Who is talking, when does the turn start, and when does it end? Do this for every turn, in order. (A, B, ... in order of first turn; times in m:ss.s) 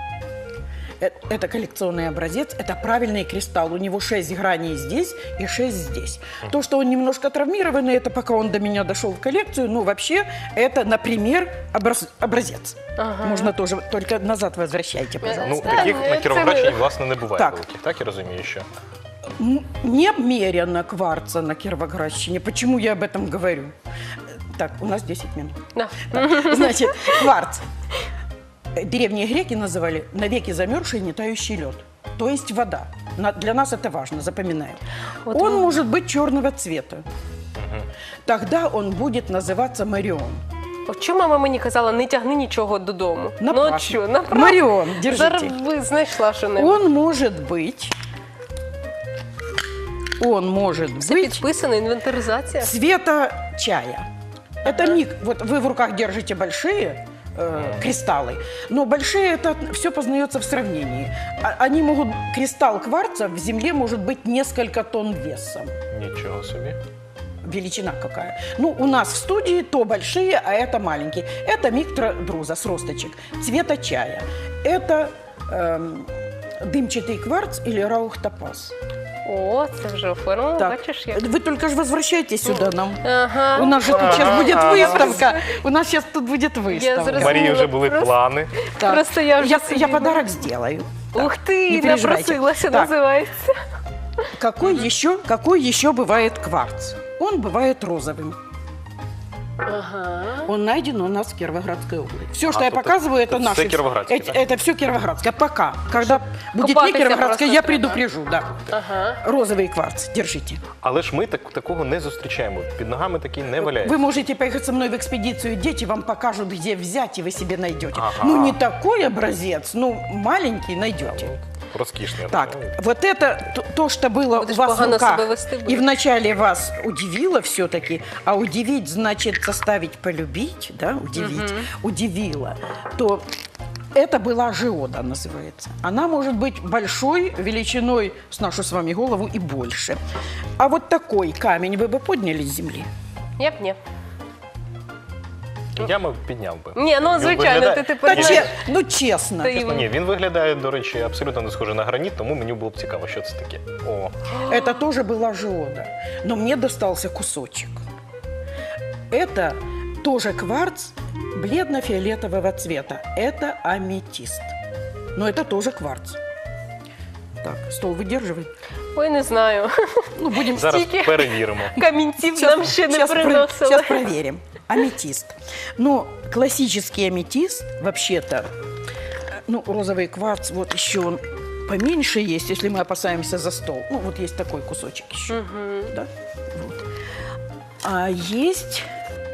0:01.0-0:16.2 A
0:13.0-0:13.5 B
0:15.2-0:16.9 B
0:15.3-0:18.7 C
0:17.3-0:17.6 A
0:19.4-0:23.7 A
0:24.5-0:27.6 A
0:25.8-0:27.3 B
0:28.8-0:37.0 A
0:35.3-0:35.8 B
0:37.6-0:37.9 C
0:38.2-0:40.4 A
0:40.9-0:46.8 B
0:43.4-0:45.6 A
0:46.6-0:47.9 A
0:50.2-0:51.5 A
0:51.0-0:52.7 B
0:52.6-0:54.1 A
0:54.6-1:05.7 A
0:54.7-0:55.0 B
0:57.5-0:57.8 C
1:05.9-1:06.8 C
1:07.4-1:18.7 A
1:19.2-1:21.2 B
1:20.6-1:27.5 A
1:23.0-1:25.5 B
1:23.8-1:25.2 C
1:26.7-1:30.3 B
1:27.1-1:28.6 C
1:28.8-1:32.9 A
1:31.1-1:33.6 B
1:34.4-1:38.4 A
1:34.6-1:34.9 B
1:39.6-1:40.5 B
1:40.4-1:48.6 A
1:42.5-1:44.4 C
1:45.9-1:48.0 B
1:48.7-1:49.2 B
1:49.2-1:50.6 A
1:50.8-1:54.0 C
1:53.6-2:01.3 A
1:58.0-1:58.6 C
2:01.0-2:02.7 C
2:02.3-2:13.2 A
2:04.4-2:05.9 B
2:11.2-2:11.7 B
2:13.9-2:20.0 A
2:20.6-2:22.9 A
2:23.4-2:23.8 B
2:25.8-2:28.5 C
2:26.7-2:28.6 B
2:28.0-2:29.7 A
2:29.4-2:29.9 B
2:29.5-2:34.3 C
2:34.4-2:37.8 A
2:39.1-2:44.5 A
2:45.2-2:46.2 A
2:47.4-2:48.5 A
2:49.0-2:54.0 B
2:50.2-2:50.8 A
2:50.5-2:51.8 C
2:52.3-2:58.5 A
2:59.5-3:06.8 A
3:05.3-3:05.9 B
3:07.8-3:08.8 A